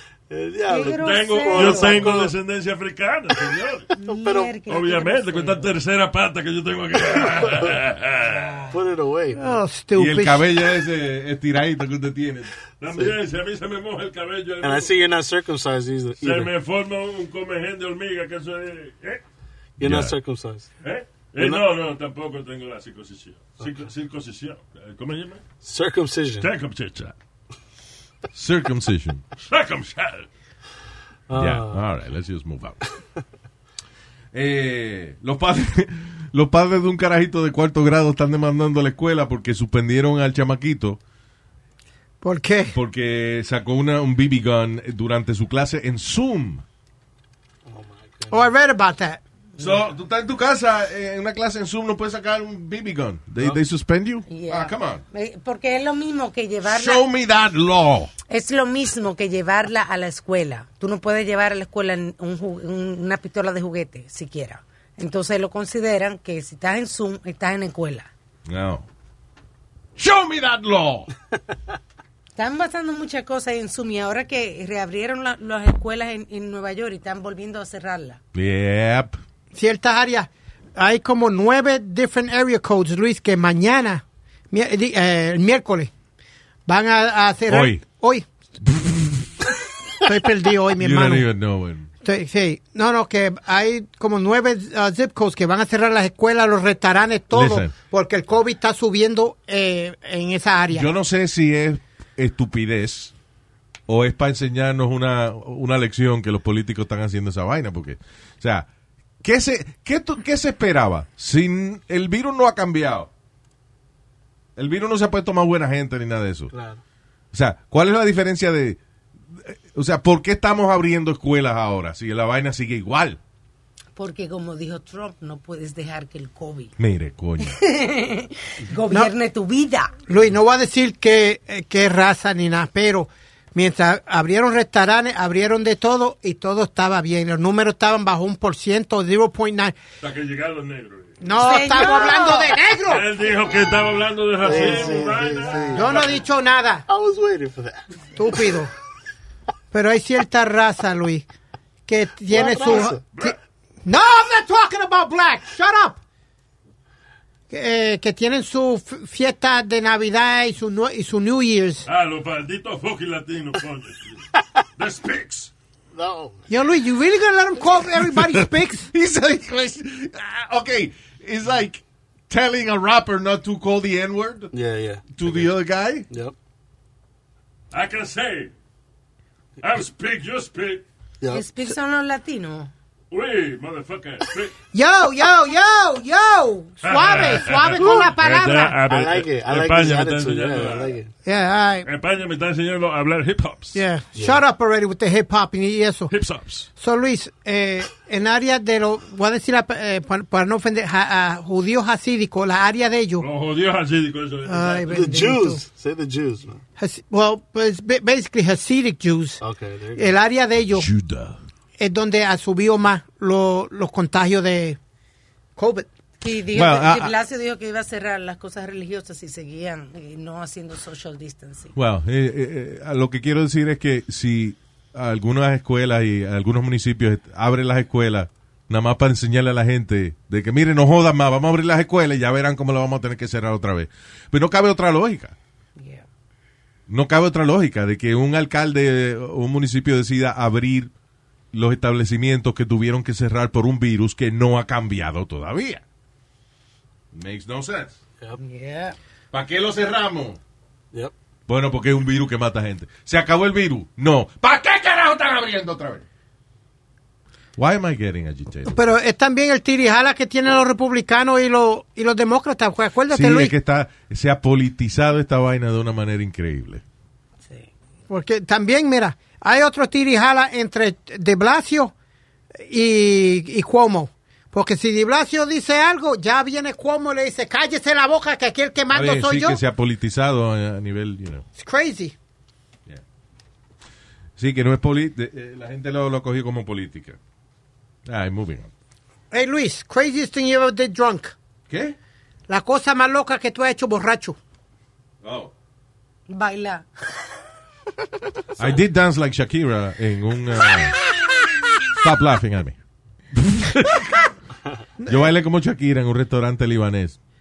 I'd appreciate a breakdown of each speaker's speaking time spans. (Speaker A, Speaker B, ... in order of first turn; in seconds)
Speaker A: 0.3-2.3, 4.1-4.5, 7.2-7.7, 8.7-9.6, 14.6-16.5, 19.8-20.7, 25.6-26.5, 31.3-31.8, 47.7-48.5, 116.5-116.8, 144.4-146.1, 146.9-148.2, 152.3-153.0, 165.9-166.4, 174.5-175.5, 181.2-181.5, 187.8-188.1, 188.9-191.1, 194.2-194.4, 204.9-206.6, 209.4-210.2
Speaker B: 0.7-2.1, 4.0-5.7, 8.2-8.8, 54.3-57.0, 58.3-68.1, 72.4-78.2, 124.0-126.7, 127.4-130.0, 141.3-142.5, 181.3-182.7, 216.2-221.8, 235.8-236.1, 248.4-249.0, 296.3-297.3
Speaker C: 1.0-3.9, 4.7-8.6, 12.8-14.9, 16.2-19.2, 20.8-25.4, 26.4-27.1, 29.4-30.3, 140.0-141.2, 142.9-146.2, 161.9-164.3, 164.8-165.5, 177.7-178.5, 179.6-180.8, 183.1-184.5, 186.8-191.0, 191.8-193.8, 196.1-196.7, 203.2-205.1
Speaker D: 9.4-10.4, 42.2-42.8, 48.3-49.2, 79.5-85.9, 86.7-88.3, 90.0-91.3, 92.0-100.9, 130.1-139.8, 141.2-143.1, 145.8-146.8, 148.2-148.7, 149.7-151.3, 151.9-156.0, 157.5-161.9, 166.5-168.9, 184.7-188.8, 191.2-191.9, 193.8-196.1, 196.8-203.3, 204.5-205.6, 206.8-209.4, 210.0-210.9, 211.8-214.8, 215.6-215.9, 258.7-263.5, 268.1-271.9, 272.6-279.6, 281.6-282.1, 289.3-291.4, 292.5-294.4, 305.0-305.3
Speaker E: 9.9-12.5, 19.8-20.2, 28.3-29.2, 31.3-32.8, 34.3-41.0, 42.7-46.6, 49.6-55.0, 56.6-58.1, 68.5-68.9, 70.0-71.1, 78.3-79.2, 87.5-87.8, 88.6-89.2, 90.8-91.9, 97.3-97.7, 100.7-103.1, 103.9-108.7, 109.2-113.1, 114.6-116.5, 117.3-118.8, 119.3-123.2, 126.8-127.6, 167.9-174.5, 175.1-176.1, 210.7-211.4, 216.5-217.1, 221.8-235.3, 236.9-240.9, 241.5-245.8, 247.1-248.0, 249.3-250.4, 251.5-256.0, 257.6-258.9, 263.1-266.8, 278.9-281.4, 284.4-287.2, 288.1-288.7, 291.7-292.0, 295.2-295.5, 298.6-301.0, 302.0-302.8, 303.3-304.3, 305.1-307.2